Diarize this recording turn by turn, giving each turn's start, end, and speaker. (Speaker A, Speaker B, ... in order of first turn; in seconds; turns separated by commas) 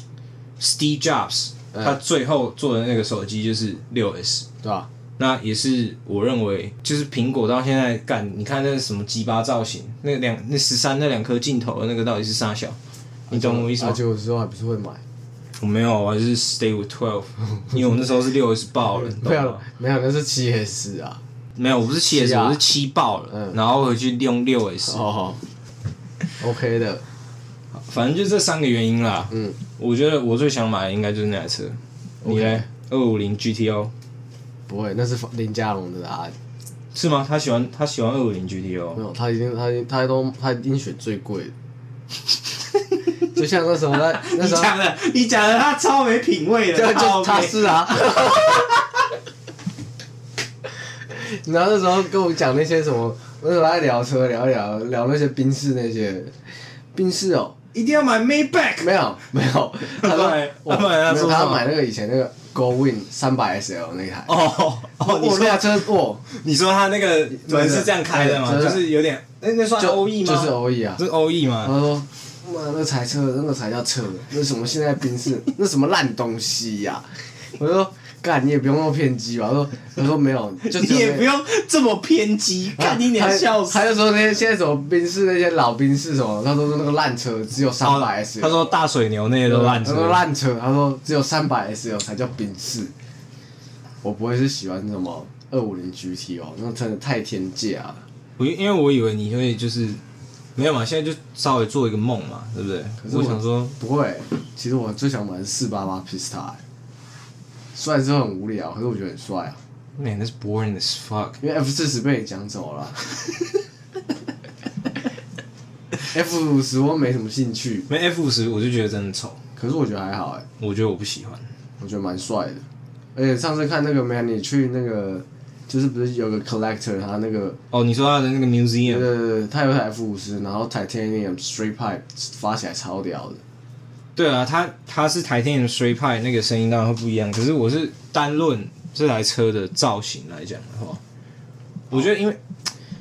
Speaker A: 0.6-4.5, Speaker B: 4.6-4.9, Speaker A: 5.2-12.8, Speaker B: 13.3-15.0, Speaker A: 13.3-14.0, Speaker A: 15.6-19.6, Speaker B: 19.0-21.2, Speaker A: 21.6-25.0, Speaker B: 22.1-22.6, Speaker B: 24.9-25.4, Speaker B: 26.4-27.0, Speaker A: 27.7-33.9, Speaker B: 32.2-32.6, Speaker B: 34.7-36.3, Speaker A: 36.9-39.0, Speaker B: 38.9-41.5, Speaker B: 43.3-44.7, Speaker A: 44.0-48.8, Speaker B: 46.7-48.7, Speaker B: 51.1-56.4, Speaker B: 56.9-57.6, Speaker A: 57.7-58.9, Speaker B: 58.8-64.3, Speaker A: 59.9-61.6, Speaker A: 64.2-71.8, Speaker B: 65.0-66.2, Speaker B: 67.4-69.0, Speaker B: 69.8-71.0, Speaker B: 71.6-81.3, Speaker A: 80.6-83.8, Speaker B: 82.8-88.7, Speaker A: 87.8-90.2, Speaker B: 89.5-92.9, Speaker B: 94.0-98.0, Speaker A: 98.4-100.0, Speaker A: 100.5-103.7, Speaker B: 103.0-106.6, Speaker B: 107.7-109.6, Speaker A: 110.0-111.4, Speaker B: 111.4-113.0, Speaker B: 116.1-117.9, Speaker A: 117.9-119.4, Speaker B: 119.6-120.5, Speaker A: 120.6-121.5, Speaker B: 121.8-122.6, Speaker B: 123.1-127.6, Speaker A: 127.7-129.1, Speaker B: 128.9-133.4, Speaker A: 134.2-141.0, Speaker A: 141.9-142.4